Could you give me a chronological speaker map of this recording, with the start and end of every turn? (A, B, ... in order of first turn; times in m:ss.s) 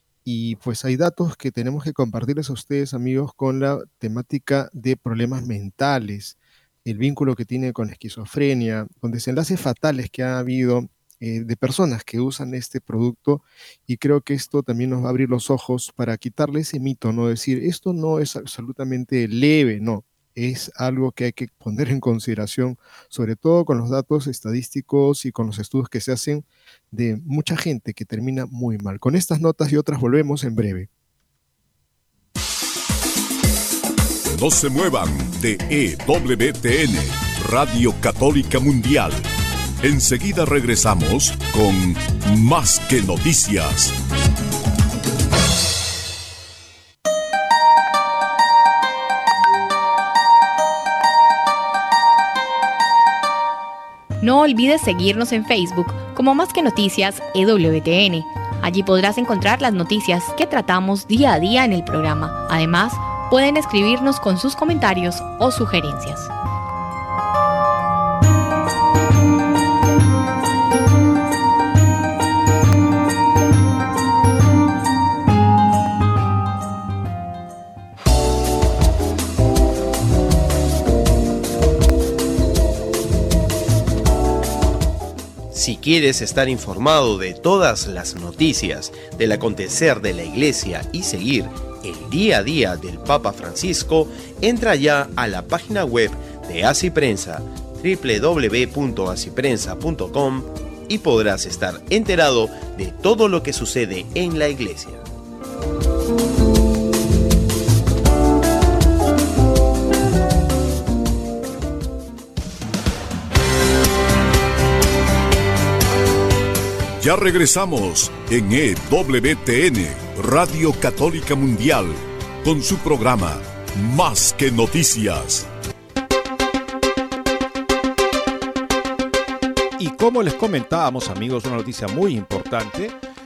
0:00.2-0:30.9 A
0:34.2-0:39.3 B
0:39.8-0:44.0 B
0:54.2-1:06.3 C
1:25.5-1:45.0 D
1:57.0-2:05.5 B
2:09.8-2:12.9 E